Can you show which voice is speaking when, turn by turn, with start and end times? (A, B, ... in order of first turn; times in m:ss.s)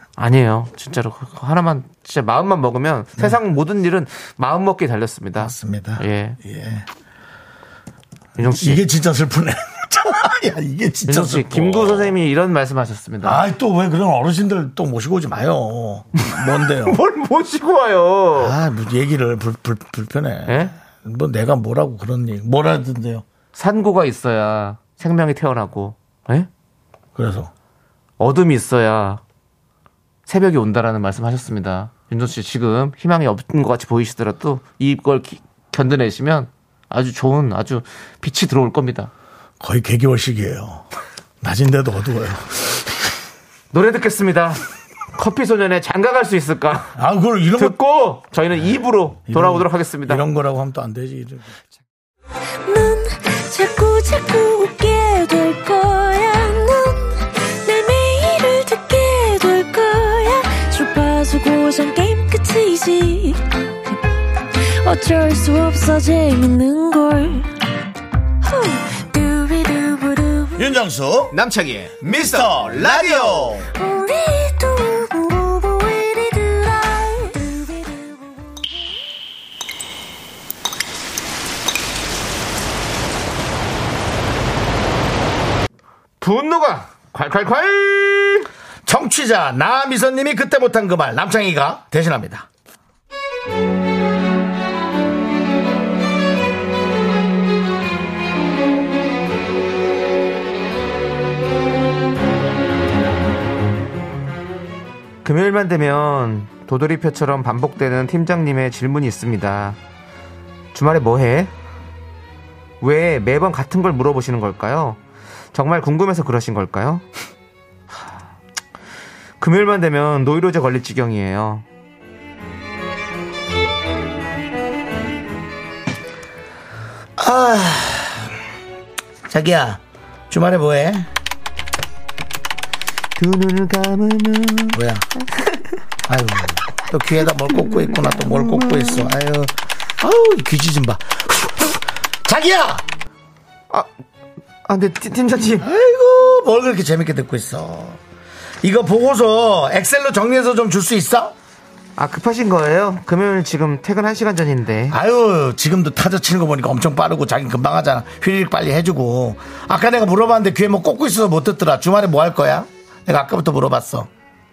0:00.2-0:06.4 A
0:05.4-0:06.9 B
0:08.4-0:08.8 A
0:08.4-0:12.2 B
0:11.1-0:13.4 A
0:13.2-0:17.0 B
0:16.2-0:18.6 A
0:18.4-0:23.2 B
0:20.5-0:20.7 A
0:23.6-0:26.5 A
0:27.2-0:27.5 B
0:28.2-0:29.2 A
0:30.3-0:39.1 A
0:39.6-0:40.9 B
0:41.4-0:42.8 B
0:43.7-0:44.6 A
0:45.2-0:46.9 A
0:47.0-0:47.8 B
0:47.6-0:50.2 A
0:49.3-0:51.5 B
0:52.7-1:04.0 C
1:04.6-1:07.5 C
1:08.4-1:10.7 C
1:10.6-1:11.4 B
1:11.3-1:13.6 A
1:12.0-1:13.7 B
1:13.8-1:18.2 C
1:26.2-1:28.5 A
1:28.8-1:32.5 B
1:45.2-1:49.8 A
1:50.7-1:51.5 A
1:52.8-1:55.0 A
1:55.5-1:57.0 A
1:59.4-2:01.6 A
2:07.2-2:08.3 B
2:09.3-2:11.1 B
2:13.2-2:14.8 A
2:14.7-2:15.1 B
2:16.1-2:22.8 B
2:18.0-2:19.0 A
2:24.7-2:25.7 A
2:25.6-2:28.0 B
2:28.6-2:31.3 B
2:32.0-2:35.0 A
2:34.9-2:44.1 B